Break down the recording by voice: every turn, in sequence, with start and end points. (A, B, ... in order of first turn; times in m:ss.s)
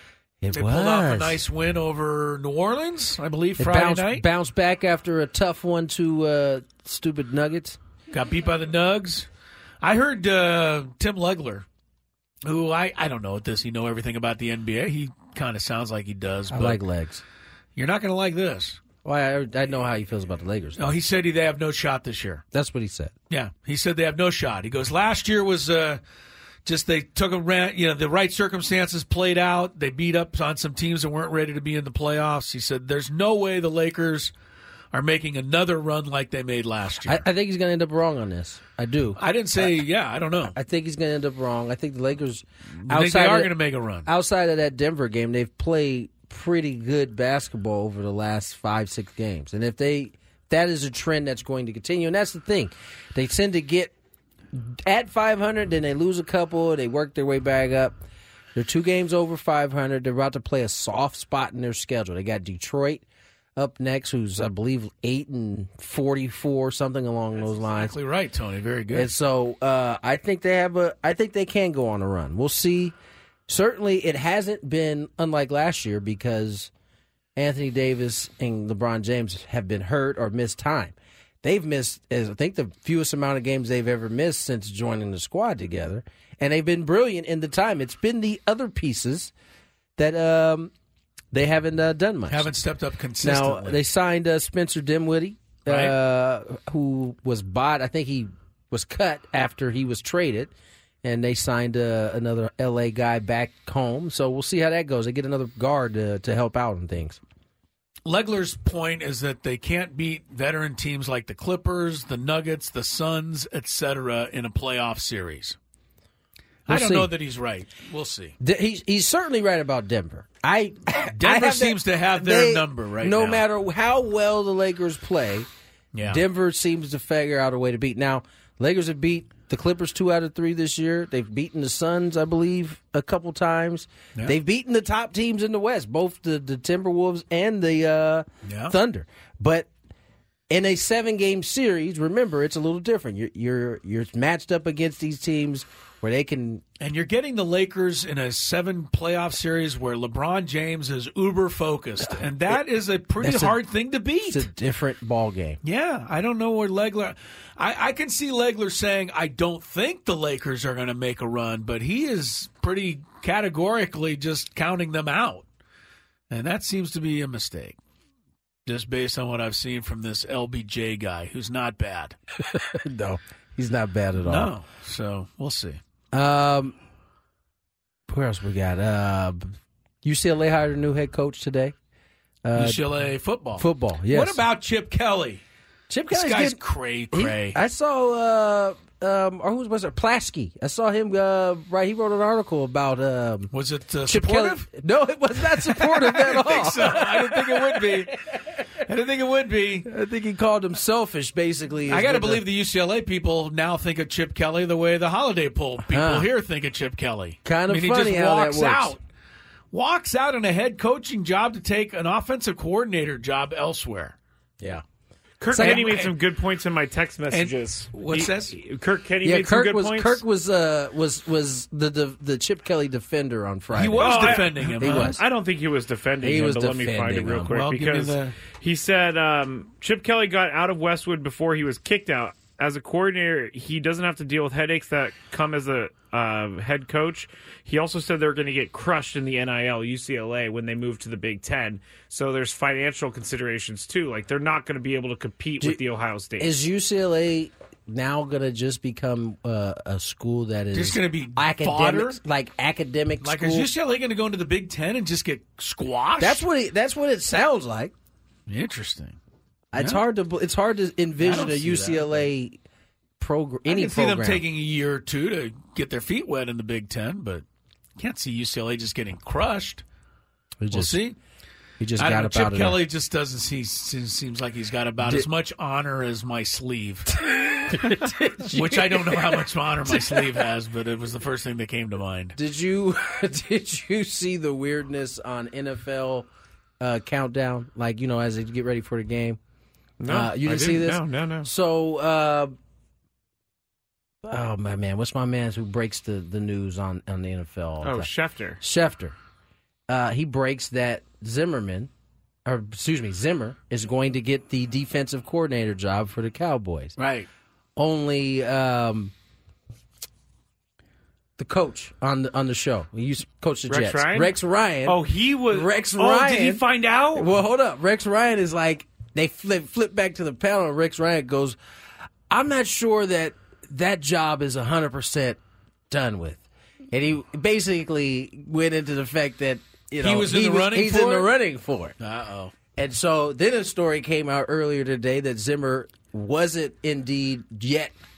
0:00.4-0:01.4 A
0:00.5-0:04.2 B
0:03.6-0:07.8 A
0:08.1-0:09.3 B
0:09.8-0:11.6 B
0:12.4-0:16.8 B
0:16.5-0:17.2 A
0:17.8-0:18.8 B
0:19.0-0:20.9 A
0:20.8-0:22.4 B
0:22.5-0:23.1 A
0:23.3-0:26.0 B
0:26.6-0:34.3 B
0:34.9-0:37.2 B
0:37.0-0:39.8 A
0:39.1-0:40.6 B
0:40.5-0:43.5 A
0:42.8-0:44.1 B
0:44.0-0:53.9 A
0:54.5-0:58.0 A
0:58.5-1:03.0 A
1:03.6-1:08.0 A
1:07.4-1:09.1 B
1:08.9-1:12.9 A
1:13.5-1:16.7 A
1:17.4-1:29.3 A
1:30.0-1:30.7 A
1:31.3-1:32.5 A
1:32.3-1:33.8 B
1:33.2-1:40.5 A
1:35.6-1:36.0 B
1:41.0-1:47.2 A
1:48.0-1:55.6 B
1:56.7-1:58.4 B
1:56.7-1:57.1 A
1:58.4-2:05.5 A
2:00.9-2:03.4 B
2:05.9-2:06.2 B
2:06.1-2:19.7 A
2:18.4-2:18.8 B
2:20.5-2:26.6 A
2:26.8-2:34.4 B
2:33.2-2:33.6 A
2:34.2-2:35.6 A
2:35.6-2:45.4 B
2:46.3-2:47.8 B
2:48.6-2:52.2 B
2:52.5-2:54.5 A
2:54.2-2:55.8 B
2:56.1-2:56.7 A
2:58.1-3:01.7 A
3:02.4-3:02.8 A
3:02.5-3:05.4 B
3:03.6-3:04.4 A
3:05.9-3:06.6 A
3:06.1-3:07.6 B
3:07.1-3:13.5 A
3:13.5-3:14.7 B
3:14.0-3:18.0 A
3:15.4-3:18.1 B
3:18.8-3:19.9 B
3:19.8-3:22.4 A
3:21.9-3:29.0 B
3:25.9-3:26.3 A
3:27.4-3:29.0 A
3:29.7-3:34.2 B
3:35.4-3:40.2 C
3:35.5-3:36.2 B
3:35.5-3:35.9 A
3:37.3-3:38.6 B
3:39.2-3:45.2 A
3:43.7-3:45.2 B
3:44.0-4:06.6 C
3:46.2-3:47.5 A
3:47.5-3:48.4 B
4:06.4-4:13.7 A
4:10.7-4:12.2 B
4:13.2-4:16.4 B
4:16.2-4:17.9 A
4:18.5-4:19.2 B
4:19.7-4:22.6 A
4:19.8-4:20.0 B
4:21.2-4:22.2 B
4:23.2-4:24.4 A
4:23.6-4:27.4 B
4:28.0-4:29.8 B
4:30.6-4:31.0 A
4:30.7-4:31.2 B
4:31.8-4:32.8 A
4:32.0-4:37.1 B
4:37.6-4:40.3 A
4:38.5-4:42.4 B
4:42.3-4:46.3 A
4:46.8-4:49.4 A
4:50.0-4:51.5 C
4:50.1-4:52.5 A
4:54.2-4:58.1 A
4:57.8-4:58.6 C
4:58.6-4:59.1 A
4:59.9-5:01.9 A
5:02.4-5:07.0 A
5:07.0-5:07.3 B
5:07.8-5:09.1 A
5:11.4-5:21.6 A
5:13.7-5:17.3 C
5:22.3-5:32.0 A
5:30.0-5:31.3 B
5:32.0-5:32.5 B
5:32.7-5:37.9 A